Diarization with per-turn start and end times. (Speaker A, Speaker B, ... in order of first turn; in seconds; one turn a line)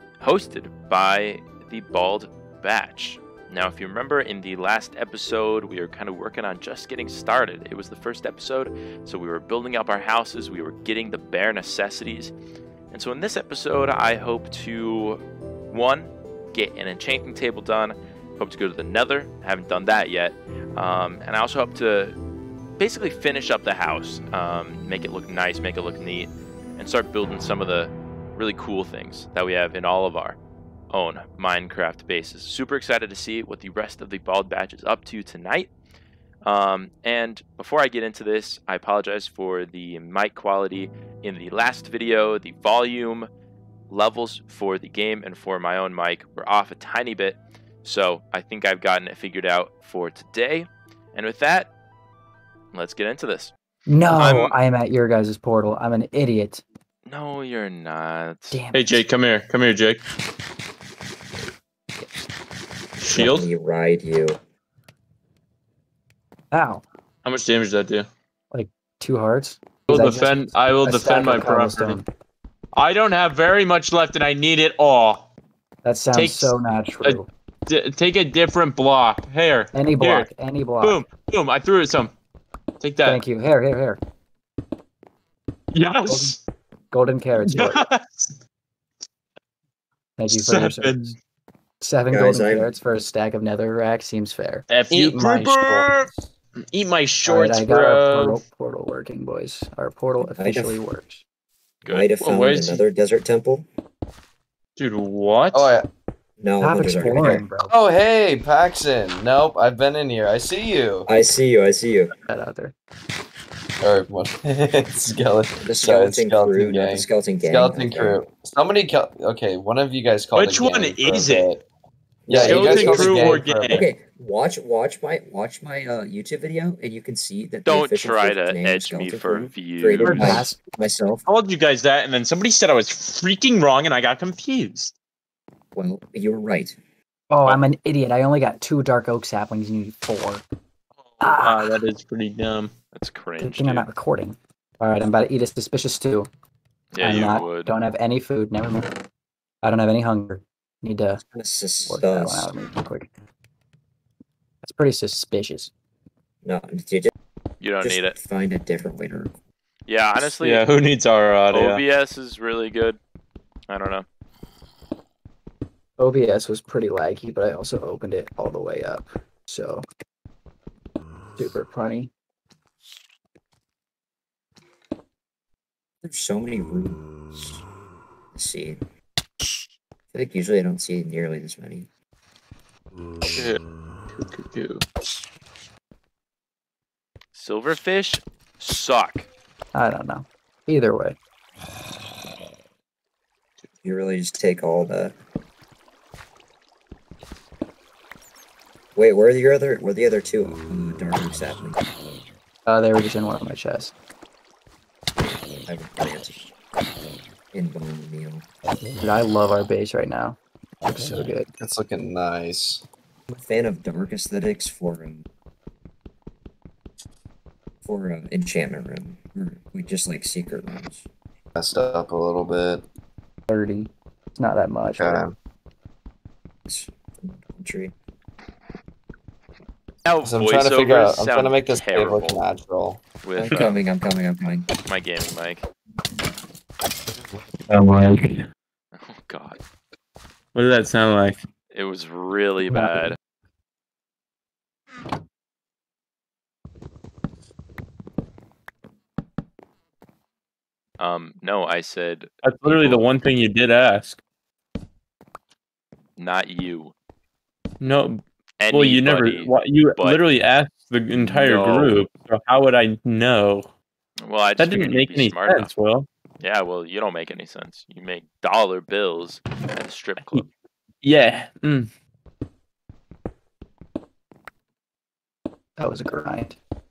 Speaker A: 0.2-12.3
Speaker A: 12.9-22.2
Speaker A: 22.8-30.4
Speaker A: 30.9-35.7
Speaker A: 36.4-43.3
Speaker A: 43.9-51.7
Speaker A: 52.7-53.5
Speaker B: 53.9-56.6
Speaker A: 54.1-54.5
Speaker A: 57.0-58.7
Speaker C: 58.7-60.0
Speaker C: 63.0-63.5
Speaker D: 63.1-64.4
Speaker B: 66.5-66.8
Speaker C: 67.2-68.1
Speaker B: 68.5-72.0
Speaker C: 69.9-72.0
Speaker C: 72.7-75.3
Speaker B: 75.8-77.3
Speaker C: 76.1-80.3
Speaker B: 79.7-81.0
Speaker C: 80.8-82.1
Speaker C: 82.8-83.2
Speaker B: 83.1-84.0
Speaker C: 85.7-86.4
Speaker B: 86.9-87.8
Speaker C: 87.4-88.3
Speaker B: 90.2-91.1
Speaker C: 90.3-91.2
Speaker B: 91.8-94.7
Speaker D: 92.1-92.7
Speaker C: 94.7-96.1
Speaker E: 94.9-96.2
Speaker C: 96.7-98.4
Speaker B: 97.2-101.2
Speaker D: 100.2-100.8
Speaker C: 101.8-102.8
Speaker D: 101.8-103.7
Speaker C: 104.8-105.7
Speaker E: 105.5-105.9
Speaker D: 106.4-107.4
Speaker B: 106.6-107.7
Speaker E: 107.0-111.1
Speaker D: 111.1-112.2
Speaker B: 112.3-112.7
Speaker E: 113.8-121.6
Speaker D: 115.6-118.2
Speaker C: 120.3-121.5
Speaker E: 122.3-123.8
Speaker D: 122.3-131.2
Speaker C: 122.3-123.8
Speaker A: 127.7-130.2
Speaker C: 130.0-130.4
Speaker B: 130.2-130.5
Speaker C: 131.2-134.9
Speaker D: 135.7-136.8
Speaker B: 137.3-140.4
Speaker C: 141.2-142.7
Speaker A: 142.9-143.8
Speaker B: 143.4-146.3
Speaker A: 146.9-147.7
Speaker C: 147.0-147.5
Speaker B: 147.2-148.9
Speaker B: 149.6-151.2
Speaker D: 151.2-152.5
Speaker B: 151.9-153.1
Speaker B: 154.6-155.7
Speaker D: 156.4-157.1
Speaker A: 157.6-158.2
Speaker D: 157.8-159.3
Speaker A: 159.9-160.6
Speaker C: 160.2-161.8
Speaker A: 161.5-163.0
Speaker A: 163.7-164.1
Speaker B: 166.0-169.8
Speaker B: 171.3-172.1
Speaker D: 176.0-177.6
Speaker D: 178.3-178.8
Speaker D: 180.1-181.9
Speaker C: 183.3-183.6
Speaker C: 184.2-184.8
Speaker A: 187.3-189.3
Speaker B: 189.7-191.2
Speaker D: 193.8-195.1
Speaker D: 198.9-201.8
Speaker B: 202.7-203.9
Speaker D: 205.7-206.4
Speaker D: 207.5-208.4
Speaker B: 209.0-210.4
Speaker B: 210.9-211.5
Speaker E: 211.6-212.8
Speaker D: 213.3-215.2
Speaker D: 217.8-221.0
Speaker E: 221.6-222.8
Speaker B: 223.5-225.2
Speaker E: 225.0-225.3
Speaker D: 226.7-227.9
Speaker A: 230.0-232.4
Speaker E: 230.2-233.0
Speaker A: 233.2-233.8
Speaker D: 233.3-234.7
Speaker A: 234.8-235.7
Speaker C: 237.7-238.4
Speaker A: 238.9-239.6
Speaker C: 240.5-241.4
Speaker A: 241.7-243.2
Speaker A: 251.0-253.0
Speaker C: 252.4-254.2
Speaker A: 256.2-256.9
Speaker C: 257.8-263.7
Speaker A: 258.6-260.2
Speaker E: 261.1-261.9
Speaker A: 264.2-265.7
Speaker C: 264.6-266.1
Speaker A: 266.4-270.4
Speaker C: 270.2-270.5
Speaker C: 271.0-271.9
Speaker B: 275.8-276.6